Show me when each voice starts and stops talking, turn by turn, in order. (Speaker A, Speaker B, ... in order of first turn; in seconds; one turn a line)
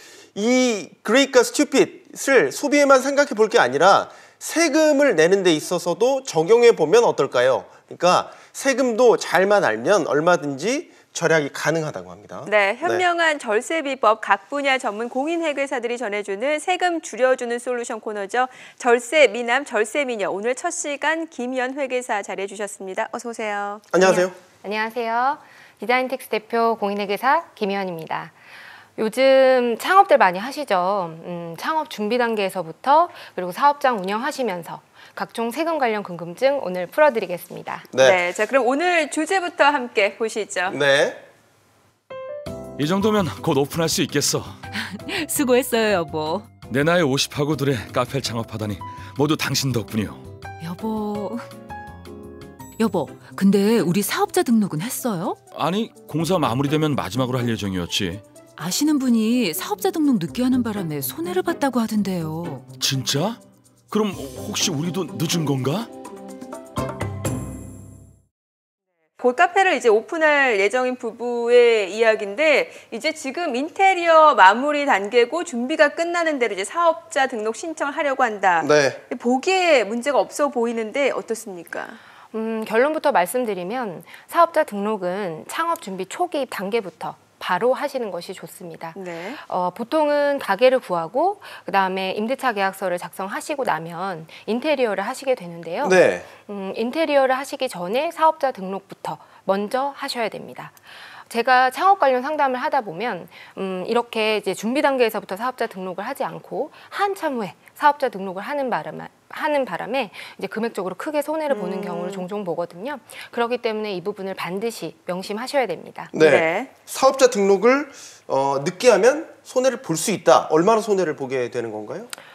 Speaker A: 0.3-13.1
Speaker B: 12.4-23.9
Speaker A: 23.9-24.4
Speaker C: 24.0-28.3
Speaker C: 29.0-37.9
Speaker A: 37.9-38.2
Speaker B: 38.0-40.8
Speaker A: 40.7-41.2
Speaker D: 42.8-44.6
Speaker E: 45.2-46.5
Speaker D: 46.6-50.3
Speaker E: 50.6-51.4
Speaker E: 52.8-55.4
Speaker D: 55.5-58.2
Speaker E: 58.6-62.6
Speaker D: 62.8-65.9
Speaker B: 69.2-82.0
Speaker A: 78.6-79.0
Speaker C: 82.3-116.1
Speaker B: 89.0-89.4
Speaker A: 95.8-96.3
Speaker B: 111.5-112.3
Speaker A: 116.1-122.1
Speaker B: 116.2-116.7